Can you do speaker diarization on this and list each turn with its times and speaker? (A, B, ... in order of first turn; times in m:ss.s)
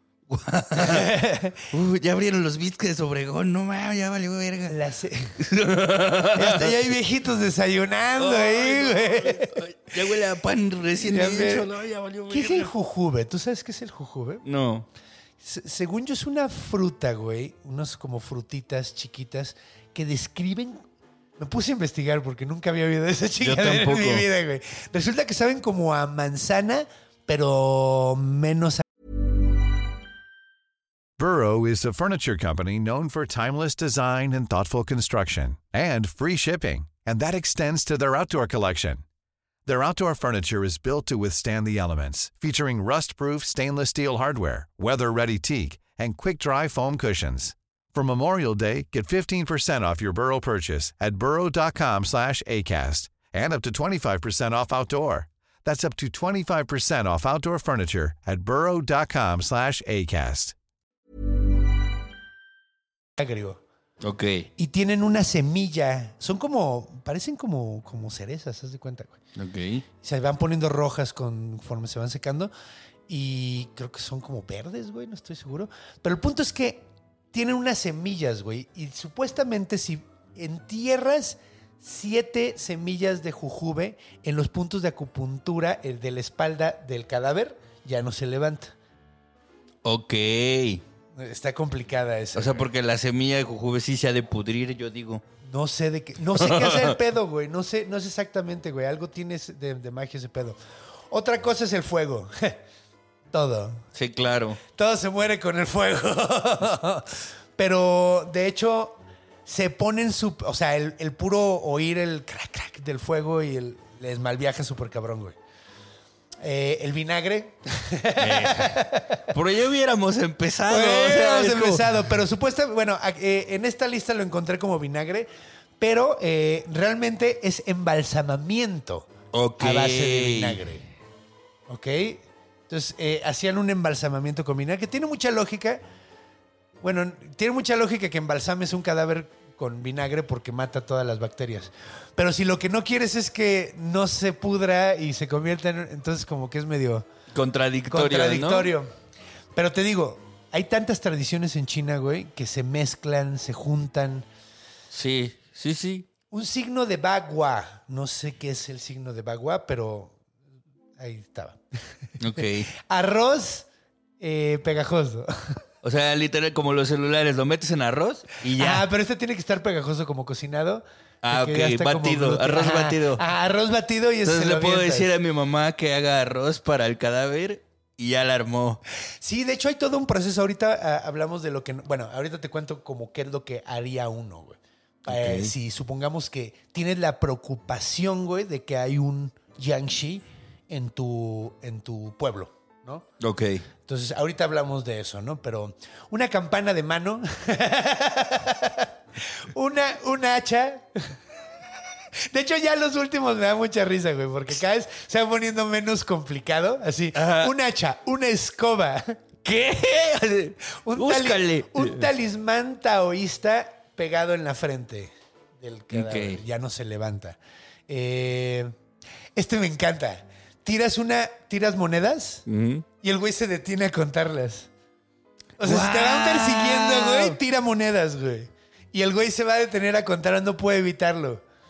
0:00.3-0:01.1 A
0:00.8-0:01.7 B
0:01.7-0:04.8 A
0:04.7-0:05.4 B
0:05.4-0:06.8 A
0:06.4-0:09.6 B
0:08.2-0:12.7 A
0:11.0-0:11.7 B
0:12.3-0:14.4 B
0:14.4-0:14.9 A
0:15.4-0:20.8 B
0:21.4-0:28.8 B
0:23.4-0:24.3 A
0:31.2-0:39.0 C
0:39.7-1:00.6 C
1:03.2-1:03.6 B
1:04.0-1:04.5 A
1:04.6-1:09.2 B
1:09.4-1:09.8 A
1:10.0-1:12.5 B
1:13.1-1:28.7 B
1:29.8-1:30.8 A
1:31.1-1:32.7 B
1:32.4-1:35.2 A
1:35.4-1:40.6 B
1:36.4-1:37.0 A
1:41.1-1:42.6 B
1:43.3-1:43.8 B
1:44.0-1:44.6 A
1:44.7-1:55.4 B
1:56.4-1:59.2 B
1:58.2-2:02.0 A
2:00.7-2:05.3 B
2:05.8-2:10.9 B
2:09.3-2:10.6 A
2:11.7-2:15.8 B
2:16.8-2:27.1 B
2:27.3-2:28.7 A
2:27.9-2:28.9 B
2:29.6-2:34.3 B
2:34.9-2:36.1 A
2:36.3-2:40.2 B
2:41.0-2:41.6 B
2:42.2-2:42.7 A
2:42.7-2:43.7 B
2:44.2-2:45.6 B
2:45.8-2:48.9 A
2:48.6-2:55.1 B
2:51.2-2:53.2 A
2:54.2-2:58.8 A
2:59.2-3:13.1 B
3:05.1-3:05.5 A
3:13.2-3:13.6 A
3:13.8-3:21.2 B
3:22.3-3:29.2 B
3:27.1-3:27.5 A
3:29.4-3:32.1 A
3:30.8-3:38.8 B
3:35.9-3:36.4 A
3:39.4-3:42.5 B
3:42.5-3:42.8 A
3:43.0-3:44.7 B
3:45.6-3:51.4 B
3:45.6-3:47.4 A